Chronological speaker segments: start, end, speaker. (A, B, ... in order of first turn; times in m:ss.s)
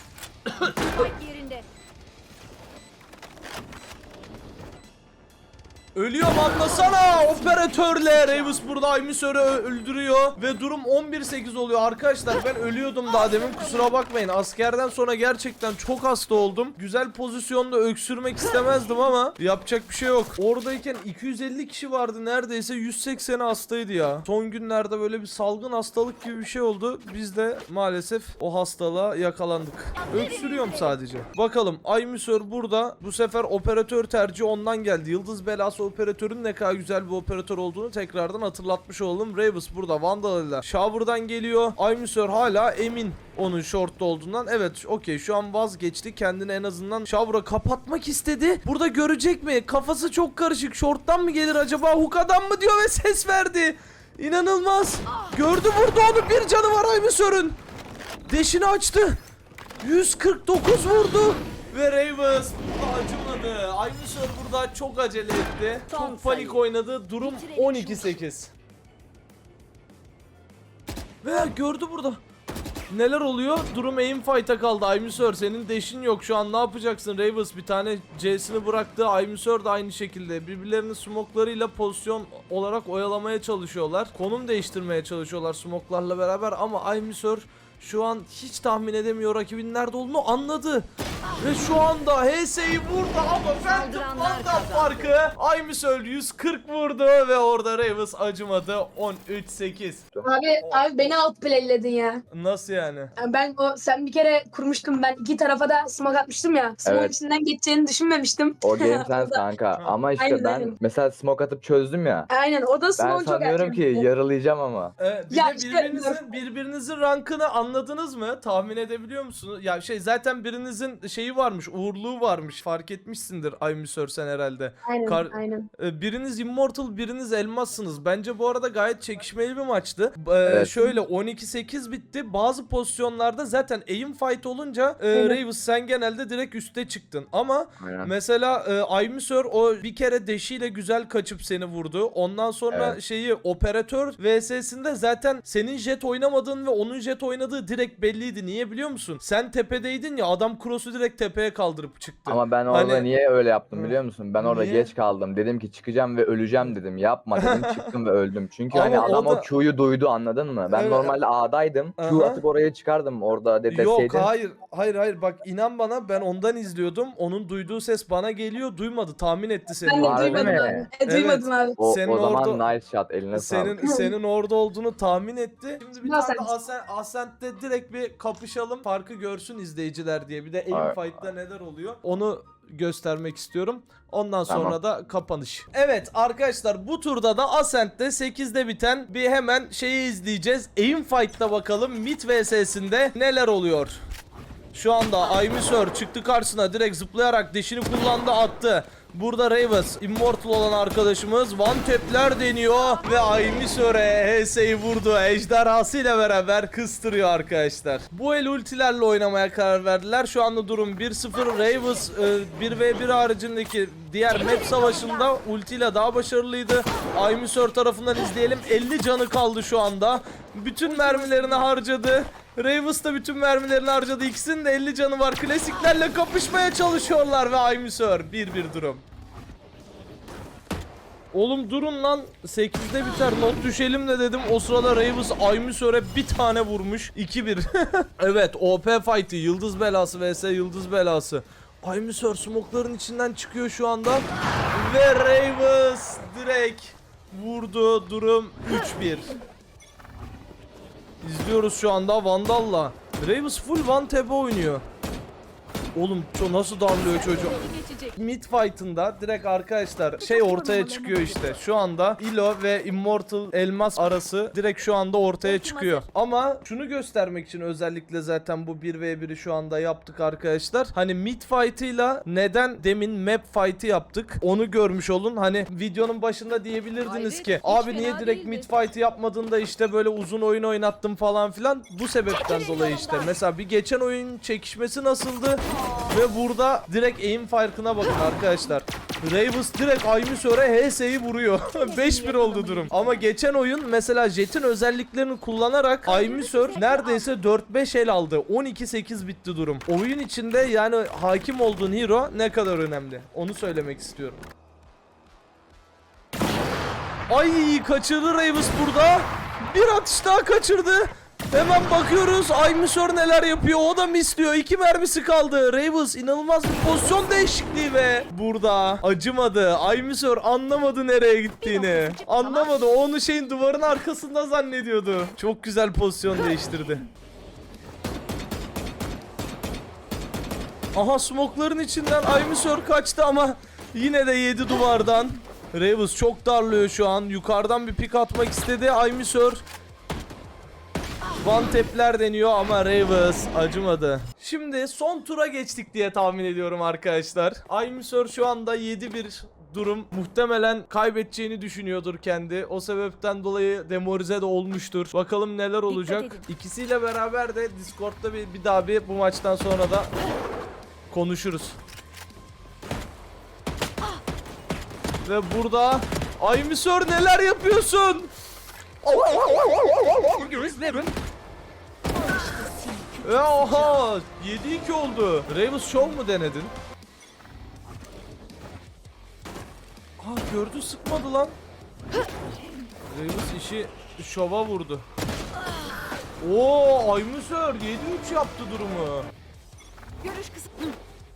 0:00.5-0:00.8 A
0:00.6-0:01.6 B
0:06.0-0:57.6 A
0:06.4-0:08.7 B
0:13.1-0:13.9 B
0:30.0-0:31.0 B
0:58.3-0:59.2 A
0:59.8-1:08.5 A
1:05.9-1:06.6 B
1:07.2-1:08.3 B
1:11.2-1:12.2 A
1:12.9-1:30.9 A
1:31.4-1:40.1 A
1:33.6-1:35.2 B
1:40.2-1:42.2 C
1:40.6-1:40.9 A
1:42.3-1:43.1 A
1:43.2-1:49.4 C
1:46.8-1:47.2 D
1:48.6-1:52.3 D
1:49.7-1:50.0 A
1:50.2-1:50.8 C
1:52.3-1:54.1 C
1:53.0-1:54.9 D
1:55.0-2:33.1 A
1:55.3-1:56.3 C
2:04.8-2:05.7 C
2:10.4-2:11.0 D
2:15.1-2:15.4 C
2:17.8-2:18.1 D
2:22.7-2:23.0 D
2:32.3-2:44.3 D
2:33.7-2:34.9 A
2:37.4-2:38.0 A
2:38.7-2:39.5 A
2:40.7-2:41.2 A
2:42.0-2:42.4 A
2:43.7-2:52.7 A
2:49.8-2:51.8 C
2:50.0-2:50.9 D
2:51.8-2:53.9 D
2:53.3-3:14.0 A
2:53.8-2:54.1 C
2:56.0-2:56.5 C
3:00.7-3:01.3 D
3:04.5-3:04.8 D
3:14.7-3:49.0 A
3:34.3-3:35.3 B
3:40.9-3:41.7 B
3:51.3-4:09.4 A
4:11.2-4:14.8 A
4:16.0-4:17.6 A
4:16.9-4:18.2 B
4:18.2-5:04.4 A
4:20.2-4:21.6 B
4:25.4-4:26.1 B
4:37.0-4:38.7 B
4:42.3-4:43.4 B
4:45.7-4:46.1 B
4:51.7-4:53.2 B
4:56.0-4:57.3 B
5:07.3-5:27.0 A
5:21.6-5:22.7 B
5:30.9-5:39.6 A
5:41.4-6:00.1 A
5:55.9-5:56.4 B
6:01.1-6:01.8 A
6:05.2-6:08.3 A
6:09.0-6:11.1 A
6:12.1-6:14.0 B
6:13.2-6:16.7 A
6:20.2-6:21.6 A
6:23.1-6:25.1 A
6:26.4-6:29.3 A
6:30.2-6:31.0 B